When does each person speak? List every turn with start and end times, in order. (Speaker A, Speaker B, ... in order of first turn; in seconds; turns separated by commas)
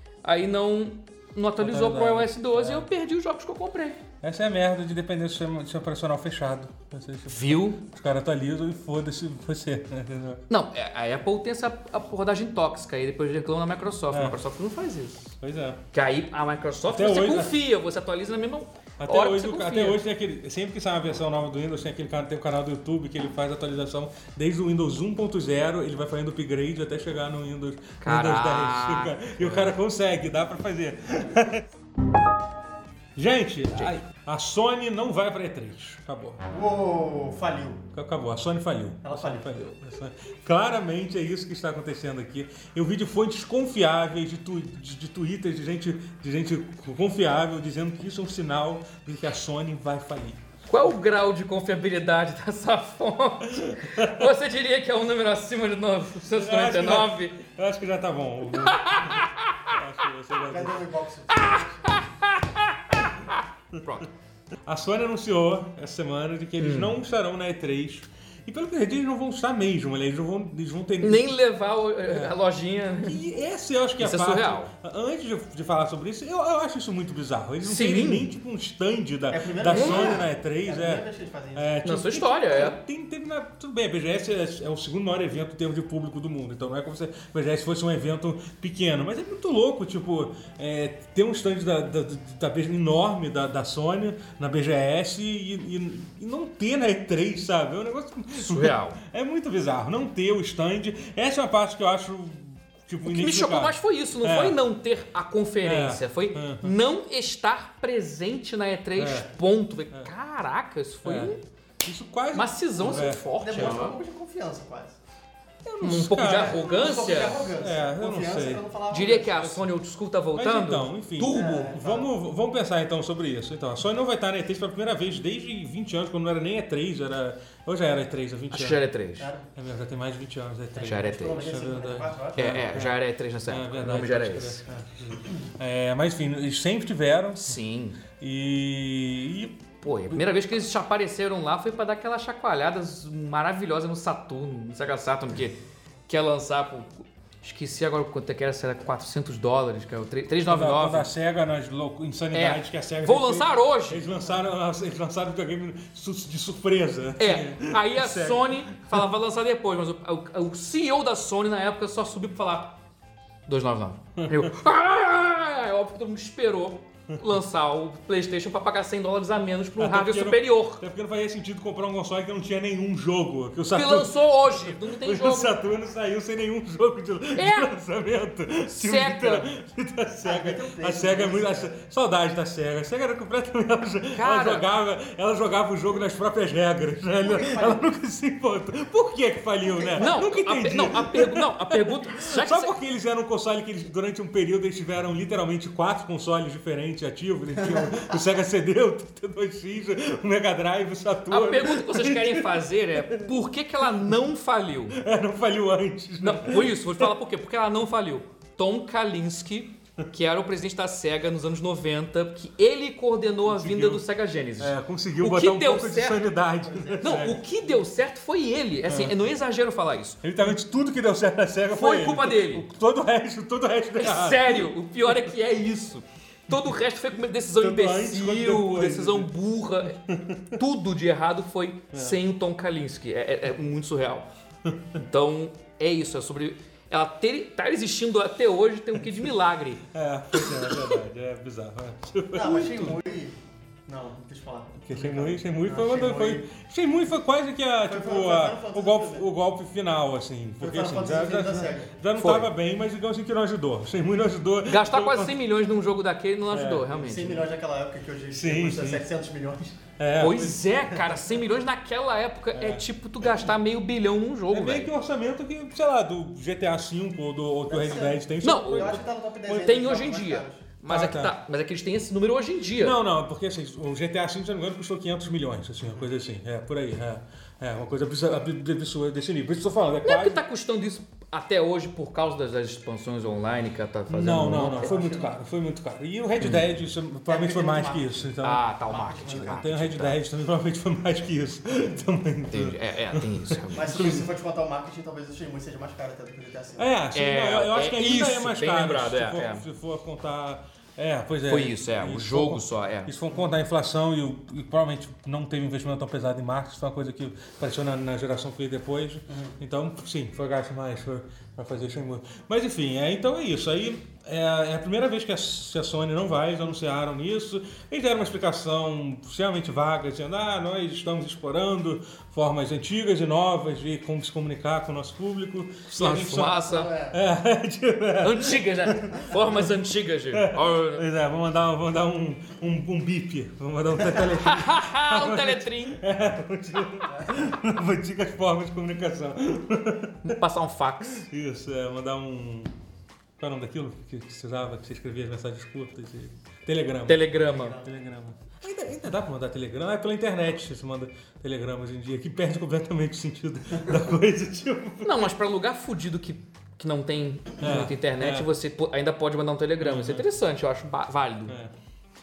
Speaker A: 0.2-4.0, Speaker B: 1.6-2.9, Speaker B: 4.2-10.4, Speaker A: 7.3-7.8, Speaker A: 10.5-15.3, Speaker B: 14.1-14.4, Speaker B: 15.4-15.8, Speaker A: 15.9-20.0, Speaker B: 16.9-17.6, Speaker B: 19.0-31.6, Speaker A: 28.0-29.7, Speaker B: 33.1-36.4, Speaker C: 36.5-37.8, Speaker B: 37.9-50.4, Speaker C: 39.0-39.7, Speaker A: 50.7-57.4, Speaker B: 53.5-54.3, Speaker B: 56.3-60.8, Speaker A: 58.5-59.6, Speaker C: 60.4-62.0, Speaker A: 61.3-64.1, Speaker B: 64.7-71.3, Speaker A: 66.6-67.0, Speaker A: 71.0-73.2, Speaker B: 72.1-72.3, Speaker B: 73.0-104.6, Speaker A: 74.0-74.7, Speaker A: 77.6-78.3, Speaker C: 79.3-81.7, Speaker A: 79.7-80.1, Speaker A: 81.8-82.8, Speaker A: 98.4-99.0, Speaker A: 103.0-111.4, Speaker B: 105.6-106.8, Speaker B: 109.0-109.3, Speaker B: 111.0-113.8, Speaker A: 112.3-114.0, Speaker C: 112.8-115.0, Speaker B: 115.6-118.6, Speaker A: 115.8-117.4, Speaker C: 116.2-119.5, Speaker A: 118.9-121.5, Speaker B: 119.3-119.7, Speaker B: 120.3-128.8, Speaker C: 121.3-122.1, Speaker A: 128.5-129.3, Speaker C: 129.2-129.5, Speaker B: 129.6-137.6, Speaker C: 130.7-132.4, Speaker A: 130.8-131.5, Speaker A: 132.3-134.6, Speaker A: 137.3-138.0, Speaker B: 138.1-140.2, Speaker A: 139.8-151.1, Speaker B: 150.4-159.1, Speaker A: 152.3-154.1, Speaker A: 157.2-162.8, Speaker A: 163.5-170.8, Speaker B: 164.2-164.5, Speaker B: 169.8-203.3, Speaker A: 173.7-175.6, Speaker A: 177.3-177.7, Speaker A: 178.7-179.5, Speaker C: 180.2-181.8, Speaker A: 184.1-184.7, Speaker C: 187.2-187.8, Speaker C: 189.7-190.2, Speaker A: 190.0-192.7, Speaker C: 197.6-198.1, Speaker A: 201.3-205.0, Speaker B: 204.9-207.1, Speaker A: 206.2-216.2, Speaker B: 213.4-214.0, Speaker B: 214.6-217.4, Speaker C: 216.6-217.5, Speaker A: 217.0-220.3, Speaker B: 218.8-219.3, Speaker B: 220.2-225.3, Speaker A: 221.7-222.7, Speaker A: 224.0-230.0, Speaker B: 226.5-226.7, Speaker B: 227.6-229.3, Speaker B: 230.1-230.6, Speaker A: 230.6-234.3, Speaker B: 231.9-232.2, Speaker A: 234.9-240.9, Speaker B: 239.0-239.3, Speaker B: 239.9-243.0, Speaker C: 242.3-246.4, Speaker B: 244.8-255.3, Speaker C: 247.8-249.3, Speaker C: 250.6-252.0, Speaker A: 252.2-252.5, Speaker A: 254.7-257.5, Speaker B: 256.5-256.9, Speaker C: 256.9-259.8, Speaker B: 258.3-259.0, Speaker B: 260.0-260.6, Speaker A: 260.2-264.9, Speaker C: 261.0-261.4, Speaker B: 262.5-263.3, Speaker B: 264.5-269.0, Speaker C: 267.7-270.7, Speaker A: 268.4-273.0, Speaker B: 270.9-271.3, Speaker B: 272.8-280.4, Speaker A: 280.0-284.9, Speaker B: 284.1-288.7, Speaker C: 284.5-285.3, Speaker C: 287.3-288.3, Speaker A: 288.4-290.2, Speaker C: 288.9-289.6, Speaker B: 289.2-294.3, Speaker A: 292.5-294.2, Speaker C: 293.7-296.9, Speaker B: 296.8-329.6, Speaker A: 297.1-299.6, Speaker A: 301.4-303.1, Speaker C: 309.3-309.6, Speaker A: 325.9-326.9, Speaker C: 326.4-327.2, Speaker A: 328.2-331.0, Speaker B: 330.3-340.4, Speaker A: 334.3-336.0, Speaker C: 337.1-337.4, Speaker A: 340.2-341.3, Speaker B: 341.1-342.7, Speaker B: 343.4-355.2, Speaker A: 347.1-347.8, Speaker C: 347.5-347.9, Speaker A: 355.0-361.6, Speaker B: 357.6-358.5, Speaker B: 359.8-360.2, Speaker B: 361.5-361.7